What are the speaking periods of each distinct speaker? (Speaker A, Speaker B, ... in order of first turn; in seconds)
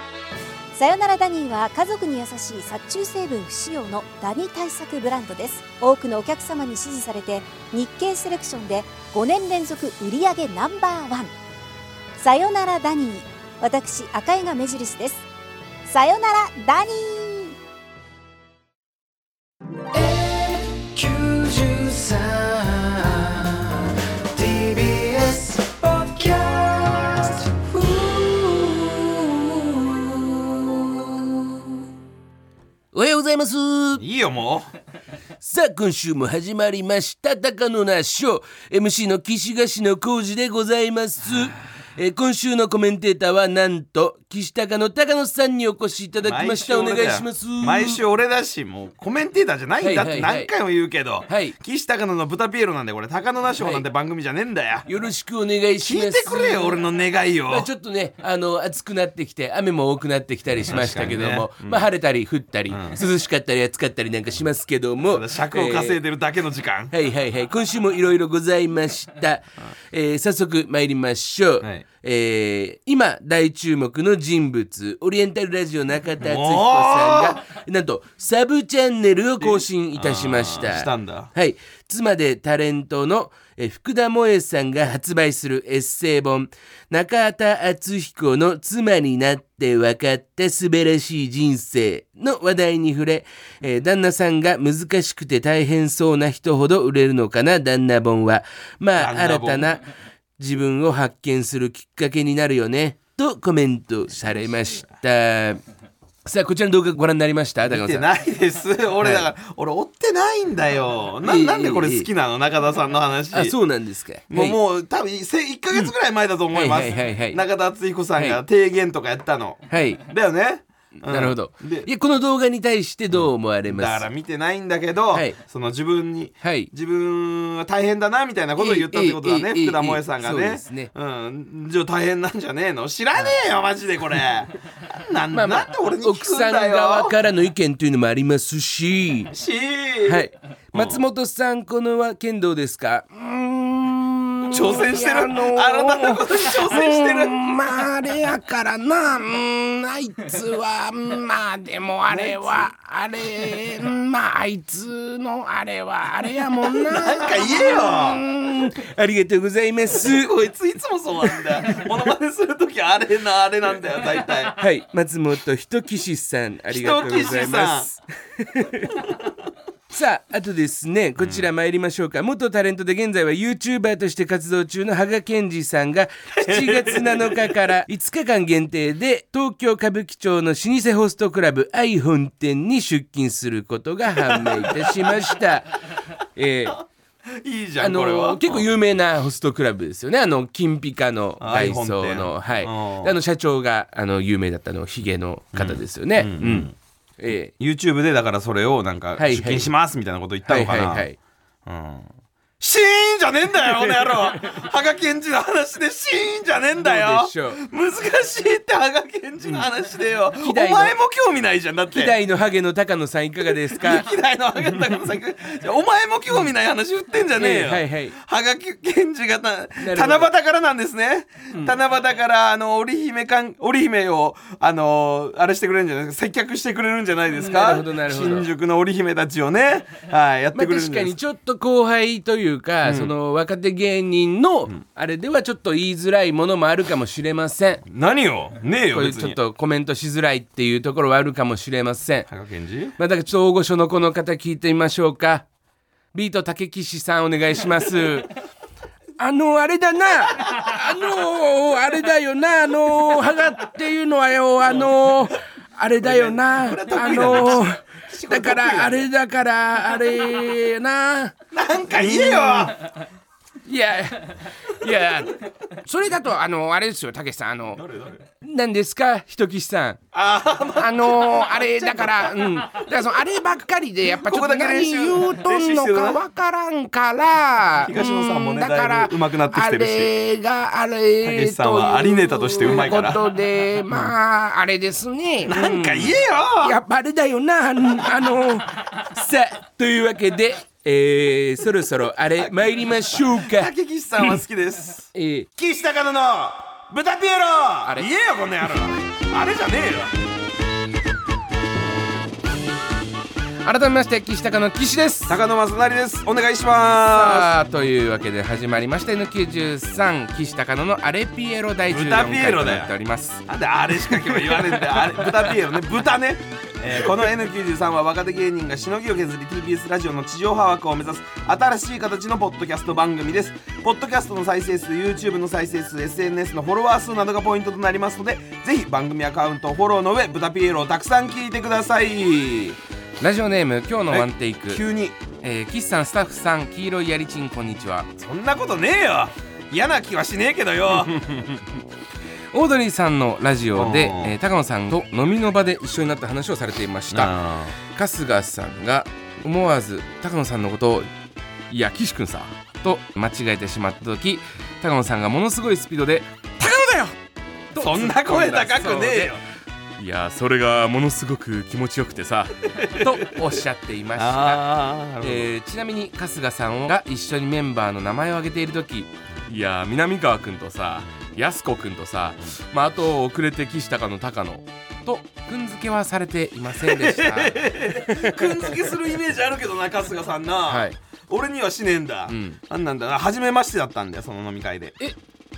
Speaker A: 0.7-11.3, 12.2-15.2, 15.8-17.6
Speaker B: 19.9-31.7
Speaker C: 32.9-34.0, 35.4-48.0, 49.8-50.5, 51.3-51.6, 53.6-53.8, 54.9-56.8, 57.5-66.0, 66.9-99.8, 100.4-105.6, 106.2-108.1, 109.0-109.3, 111.2-112.1, 113.3-114.6, 116.5-117.4, 118.2-118.4, 119.7-120.0, 121.0-124.0, 125.1-125.4, 126.4-126.7, 128.6-130.9, 135.3-139.3, 140.0-160.3, 161.3-161.9, 164.5-168.9, 169.9-186.8, 187.8-197.5, 199.2-199.7, 200.4-201.2, 206.8-207.6, 210.4-210.9, 211.9-214.1, 217.3-218.2, 219.8-220.3, 227.3-228.5, 230.5-237.8, 238.9-242.3, 243.0-245.4, 246.1-248.3, 249.2-261.3, 261.9-262.8, 263.6-267.8, 268.4-270.0, 270.8-294.4, 295.1-295.5, 297.8-298.1, 303.6-305.4, 307.1-313.4, 314.0-315.3, 332.4-334.8, 335.4-338.1, 341.0-341.4, 342.5-347.3, 347.9-351.1, 351.7-357.2, 357.7-359.4, 360.0-364.6, 365.2-378.7, 380.7-380.9, 382.3-382.6
Speaker D: 34.0-34.7, 46.2-54.9, 55.8-57.7, 60.6-61.9, 62.7-63.0, 65.0-66.9, 71.6-71.9, 76.2-77.4, 79.4-81.3, 99.0-99.7, 107.7-113.5, 114.3-121.9, 123.1-137.1, 139.3-140.2, 140.7-141.0, 144.5-147.6, 152.1-152.7, 156.8-158.2, 159.9-164.6, 166.7-167.9, 176.3-177.5, 184.2-185.2, 187.4-188.7, 191.4-193.1, 195.5-196.7, 197.6-201.1, 201.7-202.1, 202.6-212.2, 213.4-231.1, 232.8-233.1, 237.9-239.4, 242.3-242.9, 256.0-259.0, 261.5-262.8, 267.8-268.2, 270.1-272.9, 274.1-276.2, 277.8-280.1, 281.2-283.2, 285.4-286.8, 292.4-300.1, 305.3-307.5, 311.9-312.9, 313.5-332.5, 334.1-335.2, 338.2-341.4, 343.7-344.3, 347.1-347.8, 357.8-359.4, 362.8-363.3, 364.2-365.5, 376.8-384.9